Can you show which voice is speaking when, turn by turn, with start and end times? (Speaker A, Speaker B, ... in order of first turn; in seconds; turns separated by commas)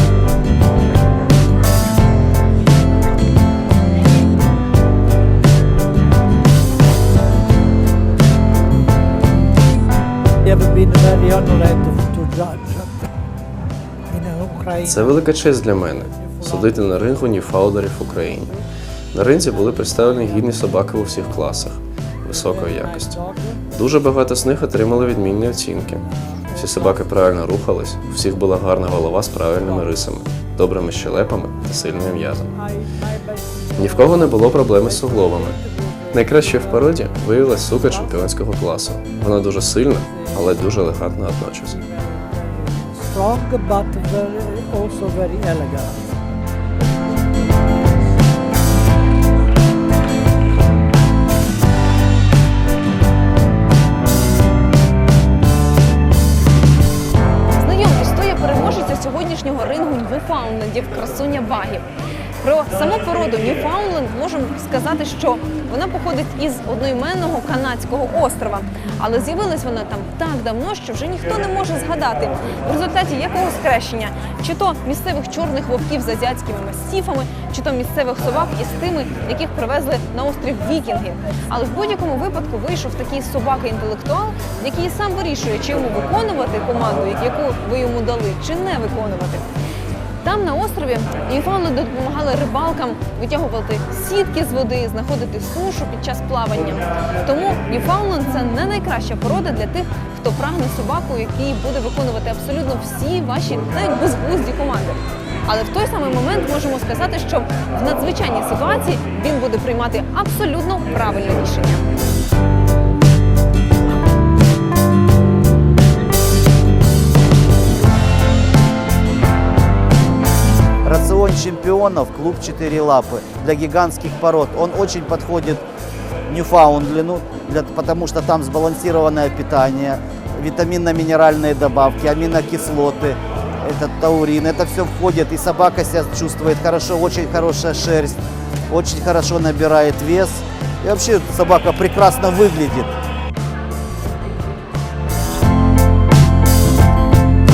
Speaker A: 10.5-13.1, Speaker A: 14.1-15.1, Speaker B: 14.8-18.6, Speaker A: 16.2-16.5, Speaker B: 19.1-32.6, Speaker A: 22.5-23.6, Speaker A: 26.3-26.9, Speaker A: 32.7-36.8, Speaker B: 33.8-35.6, Speaker B: 36.1-41.8, Speaker A: 41.8-46.0, Speaker C: 57.5-61.9, Speaker C: 62.4-89.5, Speaker C: 90.2-111.8, Speaker D: 120.8-125.6, Speaker D: 126.3-142.9